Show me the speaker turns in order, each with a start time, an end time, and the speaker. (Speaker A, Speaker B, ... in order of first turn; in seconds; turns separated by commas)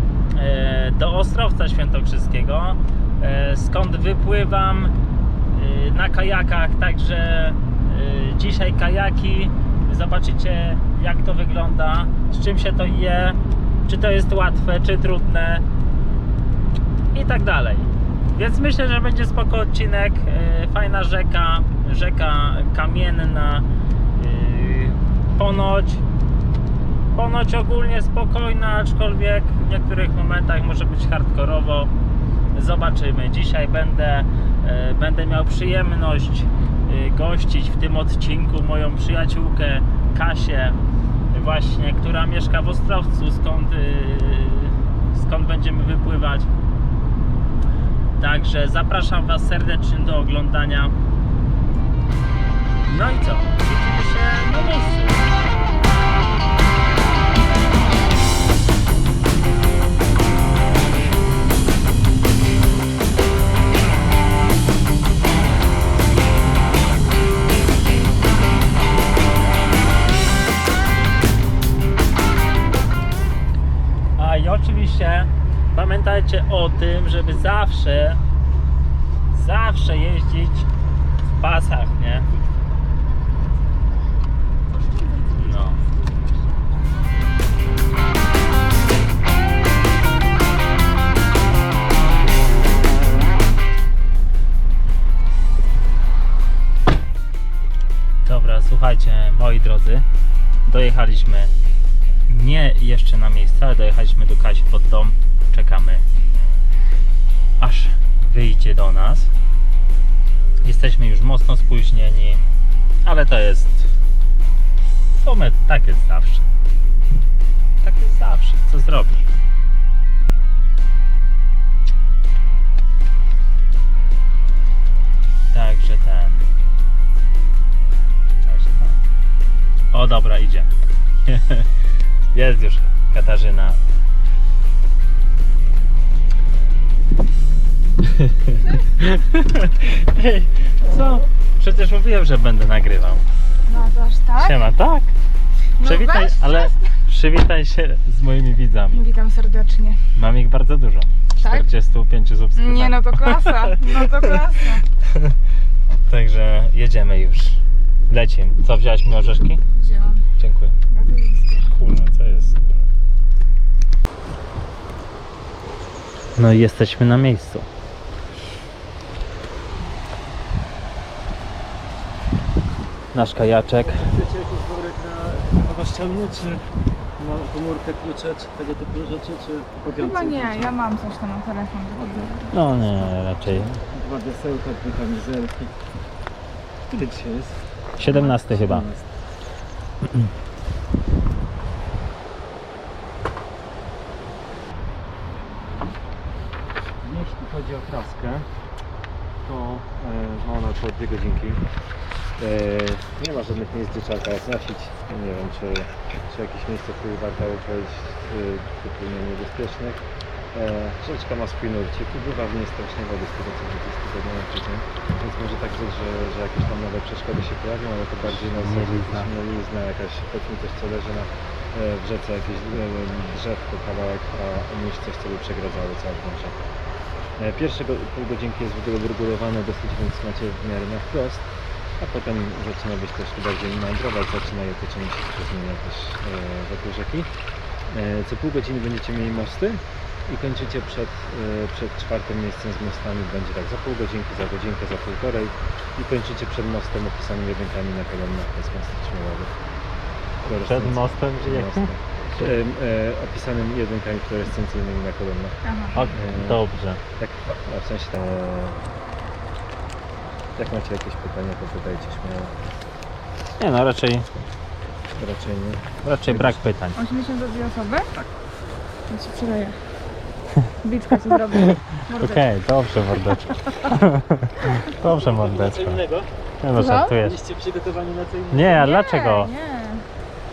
Speaker A: 0.3-5.0, Speaker A: 5.5-15.7, Speaker A: 17.1-26.0, Speaker A: 27.1-31.9, Speaker A: 32.5-40.8, Speaker A: 41.3-46.5, Speaker A: 48.2-51.0, Speaker A: 52.9-55.4, Speaker A: 74.2-78.2, Speaker A: 79.3-80.7, Speaker A: 81.2-82.3, Speaker B: 84.8-86.6, Speaker A: 85.3-85.8, Speaker A: 98.2-100.1, Speaker A: 100.7-101.5, Speaker A: 102.3-106.0, Speaker A: 107.6-109.3, Speaker A: 110.6-112.4, Speaker A: 113.0-113.9, Speaker A: 115.0-116.5, Speaker A: 117.8-119.3, Speaker A: 125.5-126.5, Speaker A: 128.4-129.0, Speaker A: 129.9-130.7, Speaker A: 131.3-131.7, Speaker A: 132.3-133.8, Speaker A: 138.0-143.2, Speaker B: 143.7-144.6, Speaker A: 144.4-145.1, Speaker B: 145.8-146.9, Speaker A: 145.8-149.0, Speaker B: 148.9-150.0, Speaker A: 150.2-154.4, Speaker B: 151.4-151.7, Speaker B: 152.6-154.8, Speaker A: 155.1-155.4, Speaker A: 156.1-159.6, Speaker B: 159.8-160.3, Speaker A: 160.4-160.8, Speaker B: 160.9-161.7, Speaker A: 161.7-162.9, Speaker A: 166.4-167.7, Speaker A: 173.1-174.0, Speaker C: 173.8-176.6, Speaker C: 177.2-180.7, Speaker B: 179.9-182.5, Speaker A: 182.5-183.8, Speaker C: 183.9-185.7, Speaker C: 186.9-189.1, Speaker A: 188.0-188.9, Speaker C: 197.0-198.5, Speaker C: 199.4-201.6, Speaker C: 202.4-226.7, Speaker A: 218.6-219.3, Speaker C: 227.4-237.3, Speaker C: 237.9-249.6, Speaker C: 250.4-256.6, Speaker A: 250.6-252.6, Speaker B: 255.6-256.0, Speaker A: 255.9-257.0, Speaker C: 257.2-258.9, Speaker C: 260.6-262.6, Speaker A: 263.6-264.3, Speaker C: 265.2-266.6, Speaker A: 266.0-267.0, Speaker B: 267.0-268.1, Speaker B: 269.1-269.8, Speaker B: 270.8-272.5, Speaker A: 271.5-276.1, Speaker C: 275.1-276.3, Speaker A: 276.6-277.4, Speaker B: 276.7-277.2, Speaker C: 277.2-278.8, Speaker A: 278.5-279.5, Speaker B: 278.7-280.1